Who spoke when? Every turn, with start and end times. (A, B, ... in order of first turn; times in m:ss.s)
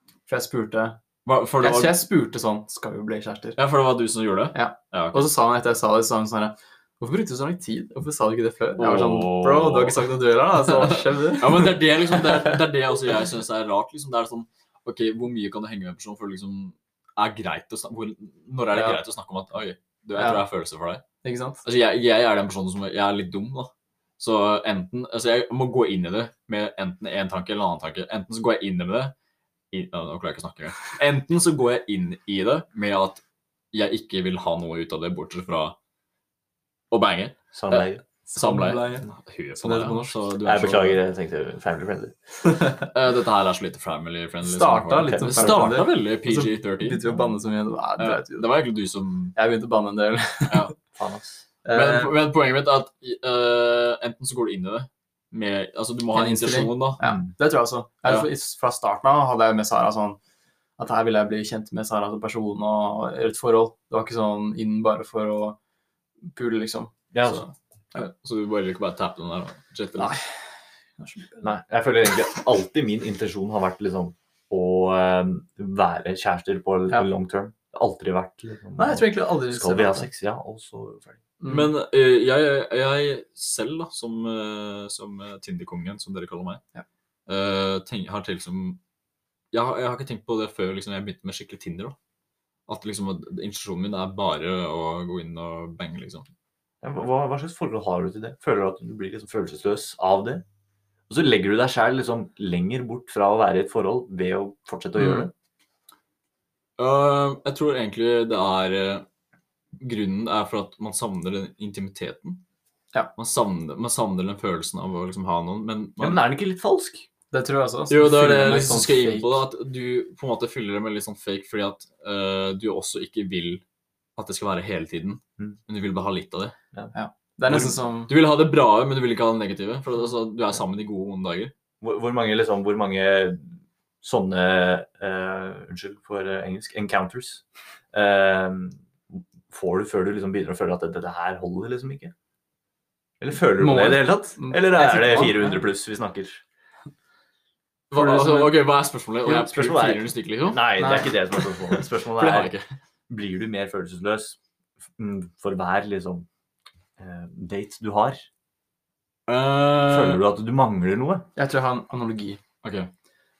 0:00.3-0:01.0 A
0:01.2-0:02.0 B
0:01.6-0:03.6 A
0:03.6-0:05.3 B
0:04.5-0:11.8 A
0:08.8-0:10.1 B
0:10.6-0:21.0 B
0:18.7-0:19.0 A
0:20.2-0:20.4 A
0:21.2-0:21.6 A
0:21.6-0:29.1 B
0:29.7-0:33.2 B
0:33.7-0:35.8 B
0:36.9-0:41.0 B
0:37.5-0:38.0 C
0:38.3-0:40.2 A
0:40.4-0:42.5 C
0:42.9-0:47.1 B
0:44.4-0:48.5 A
0:45.0-0:45.8 C
0:48.0-0:49.4 B
0:49.4-0:50.7 A
0:50.9-0:51.4 C
0:51.6-0:52.1 A
0:51.7-0:57.0 B
0:56.1-1:00.2 A
1:00.8-1:05.6 A
1:06.3-1:08.0 A
1:07.1-1:07.4 C
1:07.9-1:10.2 B
1:10.0-1:10.2 A
1:11.0-1:11.5 A
1:11.4-1:21.2 C
1:18.8-1:20.1 A
1:21.4-1:21.7 A
1:21.4-1:26.6 B
1:27.3-1:28.8 B
1:29.5-1:32.0 B
1:32.7-1:36.2 B
1:36.8-1:40.4 C
1:41.1-1:45.3 C
1:46.8-1:49.0 B
1:49.8-1:52.4 B
1:53.2-1:56.2 B
1:56.0-1:57.1 C
1:57.3-1:59.4 A
1:57.9-2:03.6 B
2:04.2-2:06.5 B
2:06.9-2:08.1 A
2:07.6-2:11.5 B
2:11.8-2:22.1 C
2:23.2-2:26.4 C
2:23.5-2:25.6 A
2:27.9-2:30.7 B
2:27.9-2:28.6 A
2:29.3-2:32.5 C
2:30.8-2:31.8 A
2:32.1-2:32.6 B
2:33.1-2:34.4 C
2:35.0-2:36.3 C
2:37.0-2:38.2 C
2:39.3-2:40.2 B
2:39.8-2:41.3 C
2:41.4-2:42.4 A
2:42.6-2:42.9 B